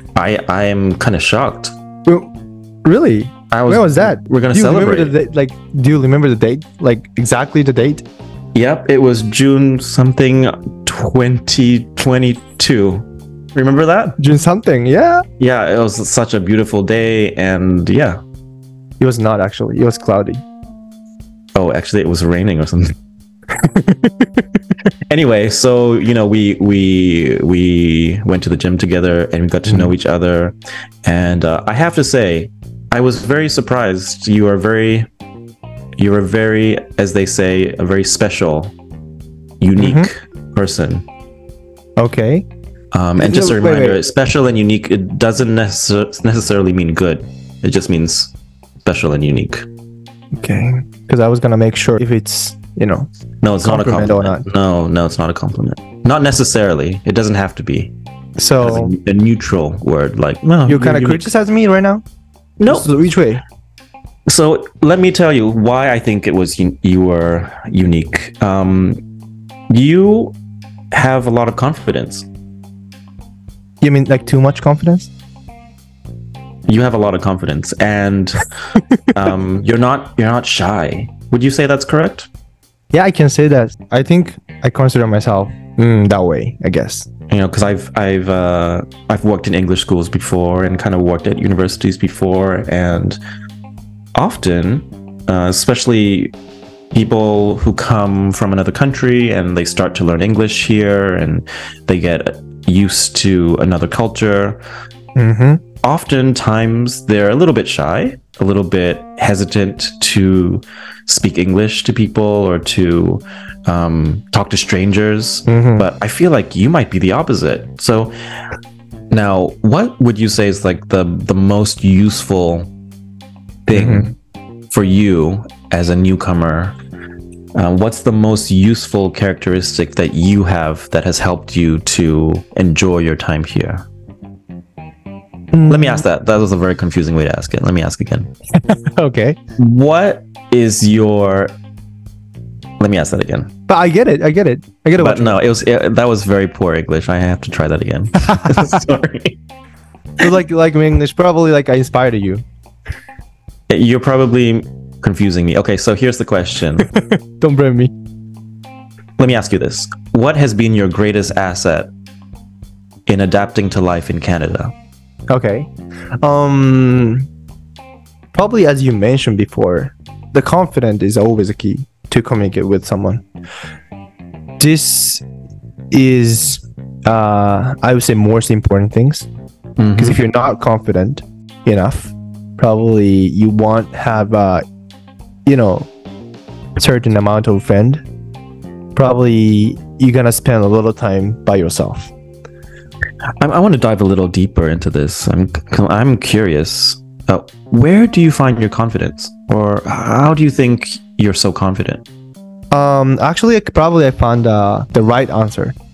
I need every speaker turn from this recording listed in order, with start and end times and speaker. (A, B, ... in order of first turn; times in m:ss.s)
0:00.2-0:01.7 A
0:02.1-0:02.3 B
0:02.8-0:08.0 B
0:03.5-0:05.2 A
0:08.6-0:14.2 A
0:14.2-0:15.2 B
0:15.4-0:18.2 A
0:19.0-0:20.4 B
0:21.6-0:22.9 A
0:23.6-0:24.3 B
0:25.1-0:35.1 A
0:29.7-0:29.9 B
0:36.0-0:38.8 A
0:39.6-0:41.1 A
0:39.8-0:40.1 B
0:42.0-0:42.5 B
0:42.9-0:49.7 A
0:43.2-0:44.0 B
0:50.4-0:53.1 B
0:53.4-0:57.9 A
0:53.6-0:54.4 B
0:58.4-0:58.9 B
0:58.6-1:01.3 A
1:00.7-1:02.0 B
1:02.6-1:02.9 A
1:02.7-1:03.4 B
1:04.3-1:09.0 A
1:09.7-1:10.4 A
1:10.9-1:12.3 A
1:13.8-1:15.1 B
1:16.7-1:18.4 A
1:19.1-1:22.3 A
1:22.9-1:27.1 B
1:27.3-1:33.2 A
1:34.2-1:36.4 A
1:36.9-1:44.6 A
1:45.2-1:45.6 B
1:45.8-1:58.1 A
1:55.5-1:55.9 B
1:59.1-2:02.7 A
2:03.7-2:04.2 A
2:03.7-2:04.1 B
2:04.7-2:06.8 A
2:07.6-2:13.9 A
2:15.5-2:16.0 B
2:15.7-2:18.3 A
2:18.6-2:19.4 B
2:19.6-2:21.6 A
2:22.8-2:23.5 A
2:23.7-2:25.4 B
2:25.0-2:29.4 A
2:28.3-2:28.7 B
2:30.2-2:32.4 B
2:33.7-2:36.9 A
2:37.0-2:37.9 B
2:39.2-2:41.9 A
2:43.1-2:44.7 A
2:45.3-2:45.7 B
2:46.2-2:47.3 B
2:48.3-2:53.2 B
2:54.6-2:55.2 B
2:55.9-2:59.3 B
2:59.8-3:00.2 A
3:00.0-3:04.6 B
3:05.5-3:05.9 B
3:06.8-3:08.0 B
3:09.0-3:12.1 B
3:13.4-3:22.0 A
3:22.7-3:25.8 B